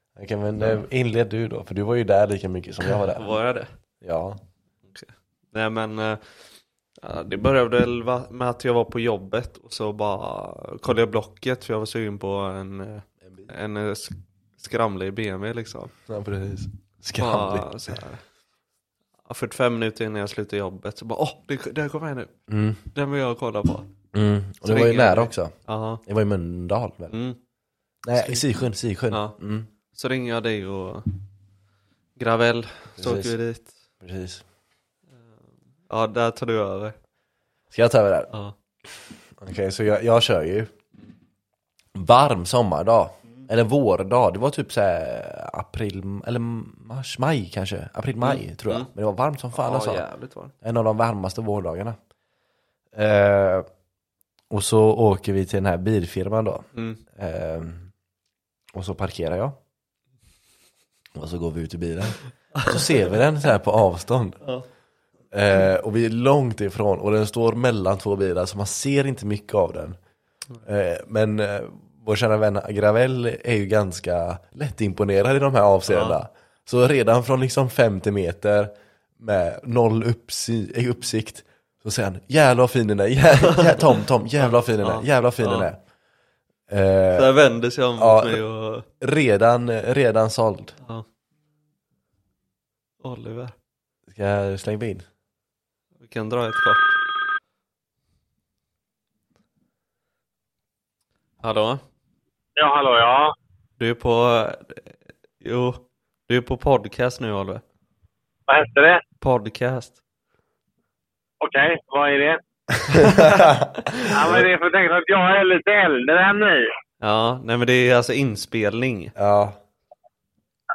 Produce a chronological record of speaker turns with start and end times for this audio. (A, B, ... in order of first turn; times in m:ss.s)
0:00.2-0:03.3 A
0:02.9-0:03.7 B
0:04.0-0:04.4 A
0:04.9-0:06.4 B
0:07.0-0:15.9 B
0:16.1-0:17.8 A
0:17.2-0:18.3 B
0:19.3-0:22.3 B
0:22.5-0:22.8 A
0:22.9-0:23.9 B
0:24.1-0:27.1 A
0:24.6-0:26.0 B
0:27.1-0:27.4 B
0:28.0-0:29.7 A
0:28.1-0:28.5 B
0:29.1-0:29.4 B
0:29.9-0:31.2 B
0:32.2-0:33.7 B
0:33.0-0:33.4 A
0:34.0-0:34.4 A
0:35.9-0:37.0 B
0:37.7-0:38.3 A
0:39.4-0:40.7 A
0:42.0-0:50.0 A
0:48.2-0:48.9 B
0:49.6-0:50.5 B
0:50.6-0:52.0 A
0:52.9-0:53.7 A
0:54.5-0:57.9 A
0:56.8-0:57.0 B
0:58.7-0:59.6 A
1:01.2-1:04.4 A
1:05.3-1:10.0 A
1:10.6-1:25.9 A
1:15.9-1:16.2 B
1:23.5-1:23.8 B
1:24.4-1:25.7 B
1:26.7-1:27.4 A
1:27.1-1:28.9 B
1:28.0-1:30.8 A
1:33.0-1:33.6 B
1:34.1-1:35.1 A
1:36.0-1:37.0 B
1:41.4-1:41.8 B
1:42.6-1:43.3 C
1:43.8-1:47.6 B
1:48.5-1:49.0 C
1:49.2-1:50.0 B
1:51.4-1:52.4 C
1:52.9-1:54.0 B
1:52.9-1:54.5 A
1:54.1-1:56.7 C
1:57.0-1:59.1 B
1:59.2-1:59.6 A